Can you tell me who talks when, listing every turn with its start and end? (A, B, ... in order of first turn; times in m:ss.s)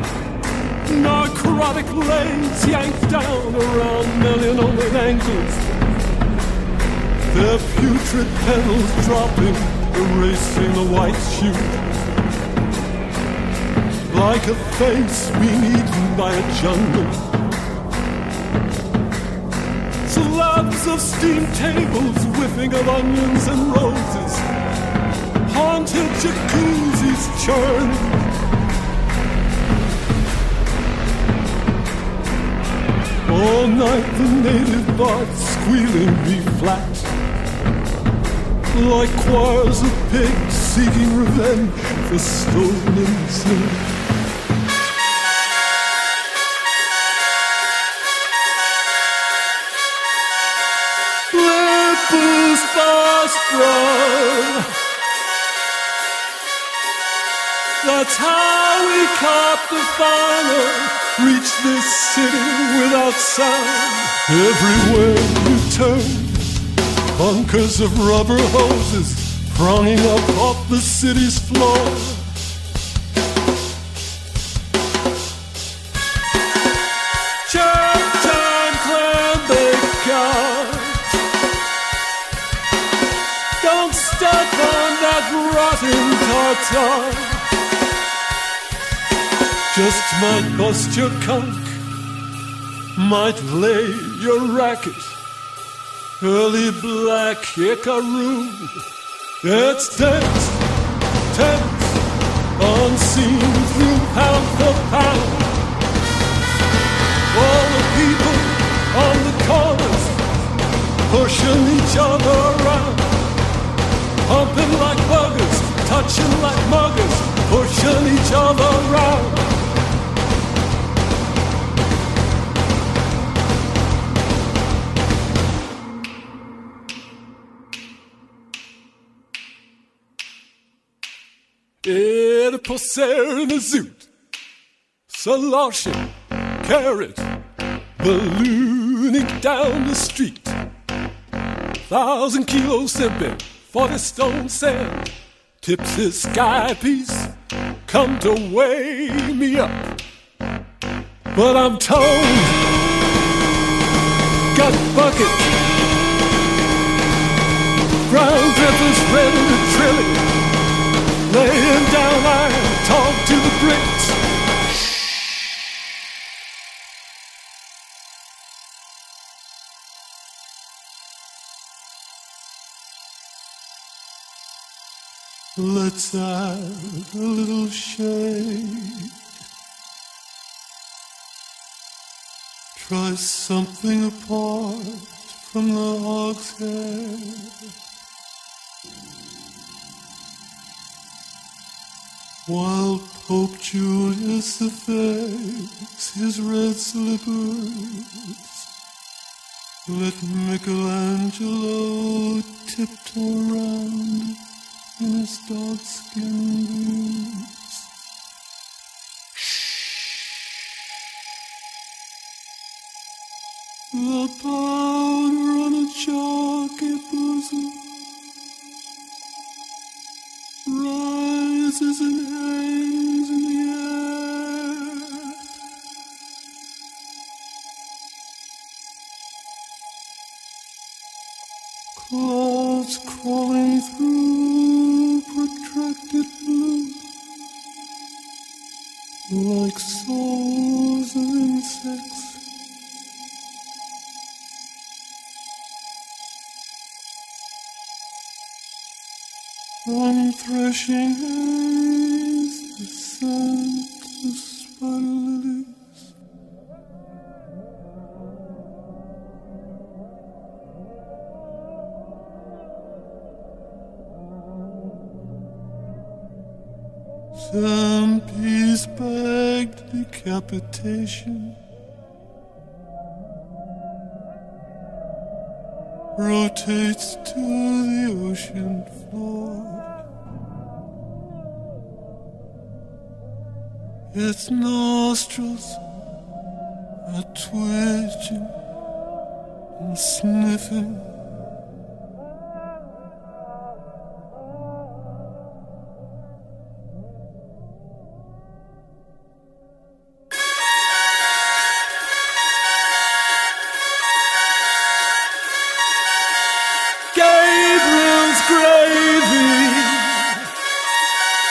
0:00.9-0:05.6 A
0:07.3-0:11.8 A
0:14.1-0:17.2 A
0:20.0-0:24.4 A
0:25.4-0:28.2 A
0:33.3-0:37.1 A
0:38.7-0:43.9 A
0:51.3-0:54.7 A
0:57.8-1:06.5 A
1:07.2-1:12.3 A
1:17.5-1:21.0 A
1:23.6-1:27.5 A
1:29.7-1:31.8 A
1:33.0-1:35.2 A
1:36.2-1:38.8 A
1:39.4-1:40.6 A
1:41.3-1:42.0 A
1:42.6-1:45.6 A
1:47.3-1:50.2 A
1:51.1-1:53.3 A
1:54.3-1:59.6 A
2:11.8-2:14.1 A
2:15.1-2:16.1 A
2:16.6-2:17.3 A
2:18.0-2:20.6 A
2:21.9-2:25.1 A
2:25.6-2:27.3 A
2:27.9-2:29.9 A
2:31.3-2:32.7 A
2:34.5-2:35.6 A
2:38.1-2:40.3 A
2:41.3-2:44.2 A
2:55.6-2:59.1 A
3:02.8-3:07.7 A
3:12.5-3:18.6 A
3:19.9-3:24.4 A
3:25.0-3:27.8 A
3:33.9-3:37.8 A
3:40.7-3:45.4 A
3:52.0-3:57.0 A
3:59.3-4:02.4 A
4:09.8-4:16.0 A
4:27.4-4:31.6 A
4:36.2-4:39.8 A
4:44.1-4:45.8 A
4:47.0-4:48.5 A
4:49.8-4:51.1 A
5:07.1-5:10.4 A